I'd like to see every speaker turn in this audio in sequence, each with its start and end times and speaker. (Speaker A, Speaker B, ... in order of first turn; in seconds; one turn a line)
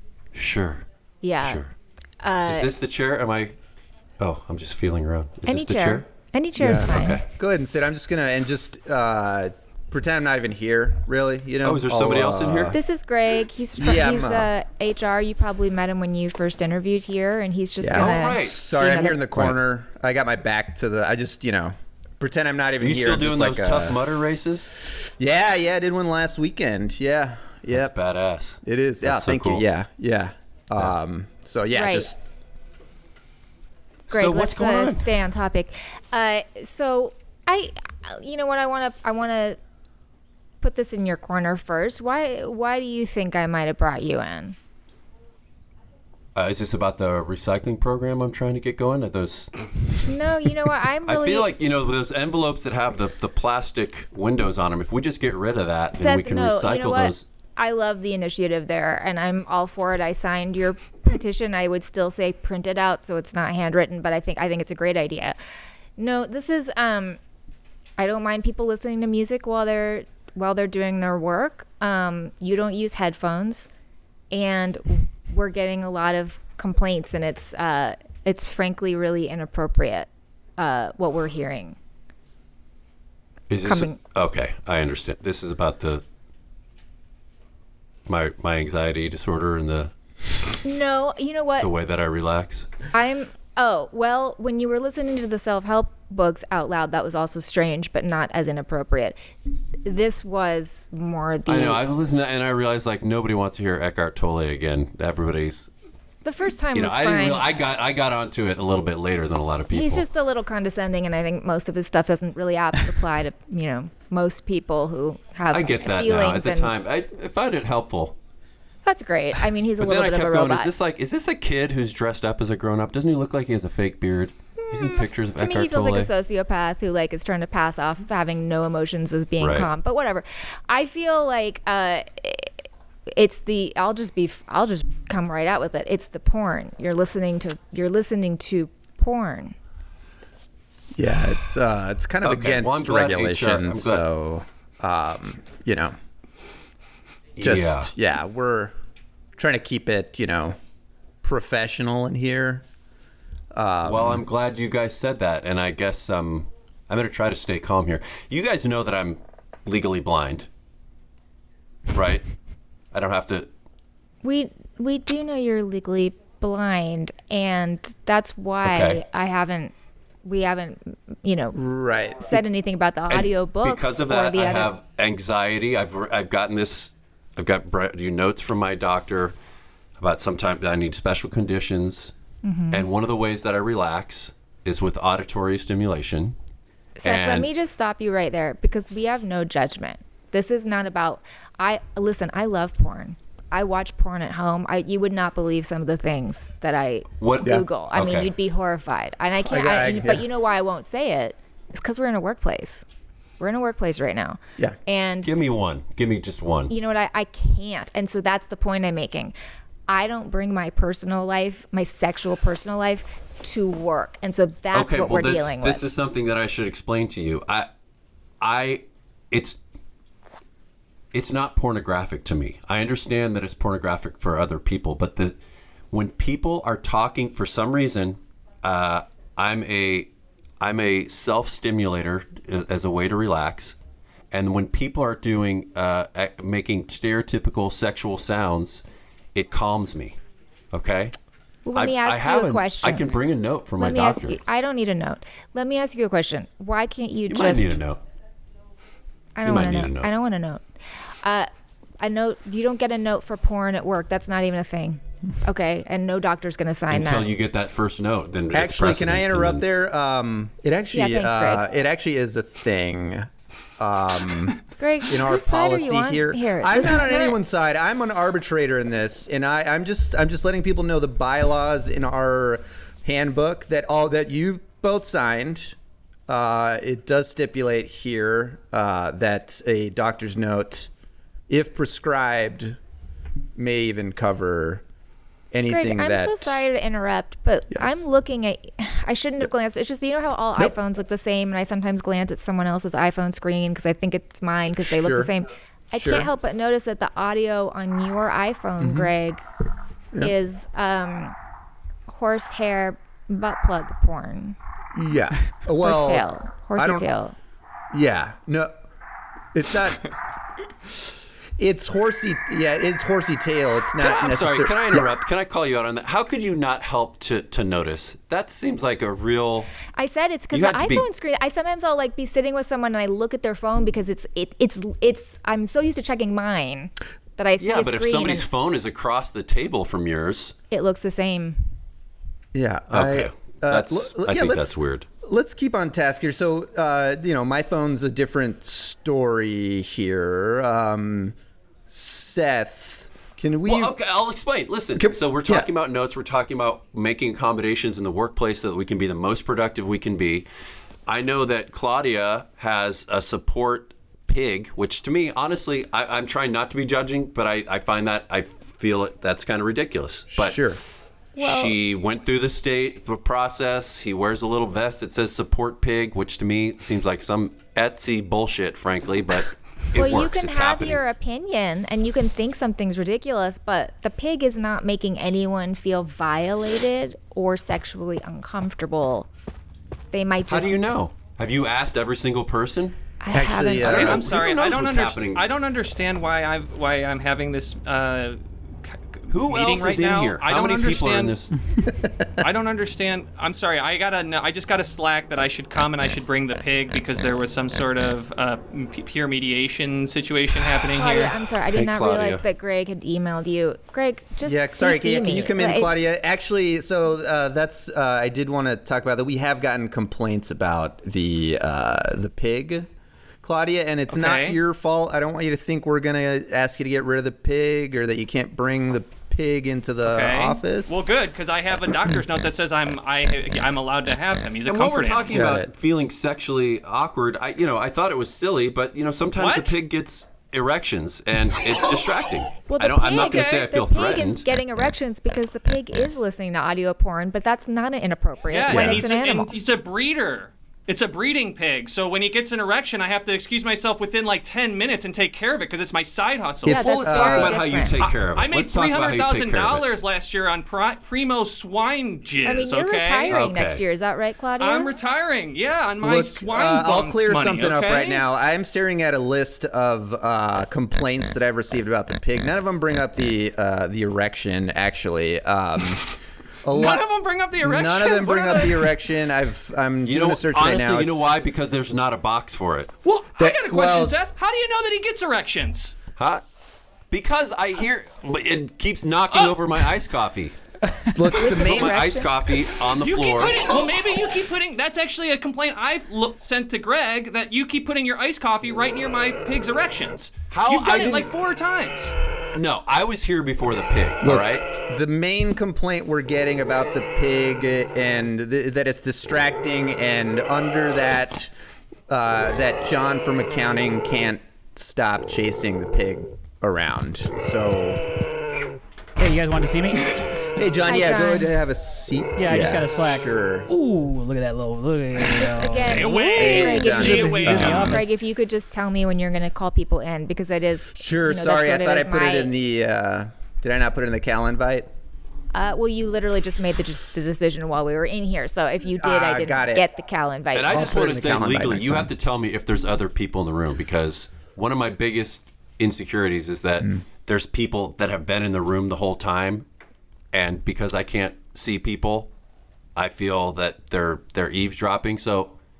Speaker A: 0.3-0.8
Speaker B: 1.2-1.6
Speaker A: 1.4-1.7
Speaker B: 2.2-2.7
Speaker A: 2.4-3.5
Speaker A: 4.2-6.0
Speaker B: 5.5-7.2
Speaker C: 6.6-12.8
Speaker A: 6.8-7.2
Speaker A: 11.6-12.8
Speaker B: 12.7-19.2
Speaker C: 13.8-14.5
Speaker C: 17.8-24.0
Speaker A: 17.9-18.7
Speaker A: 22.8-24.7
Speaker C: 25.2-27.9
Speaker A: 27.7-29.6
Speaker C: 28.6-32.2
Speaker B: 31.7-32.1
Speaker A: 34.1-35.1
Speaker B: 34.1-39.6
Speaker B: 40.6-44.5
Speaker A: 46.3-49.5
Speaker B: 50.0-51.5
Speaker A: 51.0-57.3
Speaker B: 56.0-65.4
Speaker B: 66.0-67.2
Speaker B: 68.0-73.7
Speaker B: 74.3-81.8
Speaker A: 83.5-86.0
Speaker B: 83.6-84.0
Speaker A: 88.0-89.9
Speaker B: 90.6-91.7
Speaker A: 91.6-92.7
Speaker B: 92.9-99.2
Speaker B: 99.8-101.8
Speaker A: 101.5-105.7
Speaker B: 106.2-107.5
Speaker A: 106.7-110.0
Speaker B: 109.7-116.7
Speaker A: 115.5-118.2
Speaker B: 118.8-120.7
Speaker A: 119.8-126.1
Speaker B: 124.6-132.5
Speaker A: 129.4-129.7
Speaker B: 133.1-139.6
Speaker C: 140.9-145.9
Speaker A: 142.2-144.0
Speaker A: 147.4-147.9
Speaker C: 147.4-148.7
Speaker C: 149.3-150.6
Speaker C: 151.2-152.6
Speaker C: 153.5-154.2
Speaker A: 153.8-160.5
Speaker A: 161.9-162.2
Speaker A: 162.9-163.5
Speaker B: 164.2-169.7
Speaker A: 168.6-169.0
Speaker B: 170.2-171.6
Speaker C: 171.5-172.4
Speaker B: 172.2-174.7
Speaker A: 173.1-179.3
Speaker A: 180.0-182.1
Speaker B: 182.4-182.8
Speaker A: 182.7-186.3
Speaker B: 187.0-202.8
Speaker A: 187.0-187.5
Speaker A: 197.2-198.3
Speaker C: 199.4-200.2
Speaker B: 203.4-205.3
Speaker A: 205.2-206.7
Speaker B: 206.7-209.3
Speaker B: 209.9-215.8
Speaker A: 214.7-217.7
Speaker A: 218.4-219.6
Speaker A: 221.1-225.4
Speaker A: 225.9-233.8
Speaker A: 234.3-238.8
Speaker A: 239.3-240.2
Speaker A: 240.7-241.1
Speaker B: 241.7-243.2
Speaker A: 241.7-244.4
Speaker B: 243.8-247.8
Speaker A: 247.3-248.0
Speaker B: 249.3-250.6
Speaker A: 249.4-250.1
Speaker B: 251.2-251.5
Speaker B: 252.0-257.3
Speaker A: 256.9-259.6
Speaker C: 258.5-275.8
Speaker B: 260.9-261.6
Speaker B: 264.8-267.4
Speaker C: 276.3-280.9
Speaker C: 281.5-282.8
Speaker C: 283.6-284.8
Speaker C: 285.5-286.6
Speaker B: 285.7-299.4
Speaker C: 287.7-288.0
Speaker C: 294.8-295.3
Speaker C: 296.0-296.3
Speaker C: 298.8-299.1
Speaker B: 300.2-301.4
Speaker B: 302.1-304.6
Speaker C: 304.9-306.2
Speaker B: 305.8-307.3
Speaker C: 306.8-307.0
Speaker C: 307.9-308.7
Speaker C: 309.5-310.0
Speaker C: 311.6-315.1
Speaker A: 314.0-319.7
Speaker B: 319.9-328.5
Speaker A: 320.5-321.1
Speaker A: 327.6-330.6
Speaker B: 330.7-331.6
Speaker C: 332.5-341.4
Speaker A: 332.9-335.1
Speaker C: 341.9-343.9
Speaker A: 343.6-350.5
Speaker C: 344.9-345.7
Speaker A: 351.1-360.6
Speaker C: 360.4-360.8
Speaker A: 361.4-371.0
Speaker B: 361.4-361.8
Speaker B: 369.9-379.3
Speaker B: 380.1-380.8
Speaker A: 380.5-382.9
Speaker B: 383.2-384.1
Speaker C: 383.3-384.2
Speaker A: 383.8-385.4
Speaker D: 383.9-391.3
Speaker A: 389.3-391.6
Speaker D: 392.4-401.4
Speaker B: 400.9-405.9
Speaker A: 401.7-402.4
Speaker C: 404.4-412.9
Speaker C: 413.4-421.0
Speaker D: 414.1-414.6
Speaker D: 420.0-425.4
Speaker A: 424.6-434.4
Speaker C: 425.3-425.7
Speaker D: 429.4-429.8
Speaker B: 432.7-439.5
Speaker D: 433.1-433.6
Speaker D: 438.5-446.9
Speaker C: 438.7-439.1
Speaker C: 446.6-447.6
Speaker B: 446.7-448.1
Speaker A: 446.7-449.8
Speaker D: 448.0-453.4
Speaker B: 452.4-454.9
Speaker A: 453.3-453.8
Speaker D: 454.6-458.2
Speaker C: 456.0-467.1
Speaker D: 466.7-468.9
Speaker C: 467.6-471.3
Speaker A: 470.0-472.9
Speaker D: 473.0-475.9
Speaker C: 473.4-474.1
Speaker A: 476.2-476.4
Speaker A: 477.1-480.6
Speaker D: 479.3-479.6
Speaker C: 481.1-482.1
Speaker B: 481.4-482.3
Speaker A: 481.4-483.7
Speaker D: 482.9-492.1
Speaker A: 490.5-491.3
Speaker A: 492.5-494.6
Speaker C: 494.2-501.5
Speaker C: 502.1-508.1
Speaker E: 509.2-510.2
Speaker C: 510.5-513.7
Speaker B: 510.9-511.5
Speaker E: 512.4-516.0
Speaker B: 515.4-522.5
Speaker D: 515.7-518.0
Speaker C: 516.3-517.9
Speaker E: 517.0-518.0
Speaker C: 520.9-524.9
Speaker B: 525.5-531.0
Speaker C: 529.0-529.8
Speaker A: 530.5-539.6
Speaker C: 530.7-532.1
Speaker A: 540.3-542.3
Speaker A: 543.0-545.5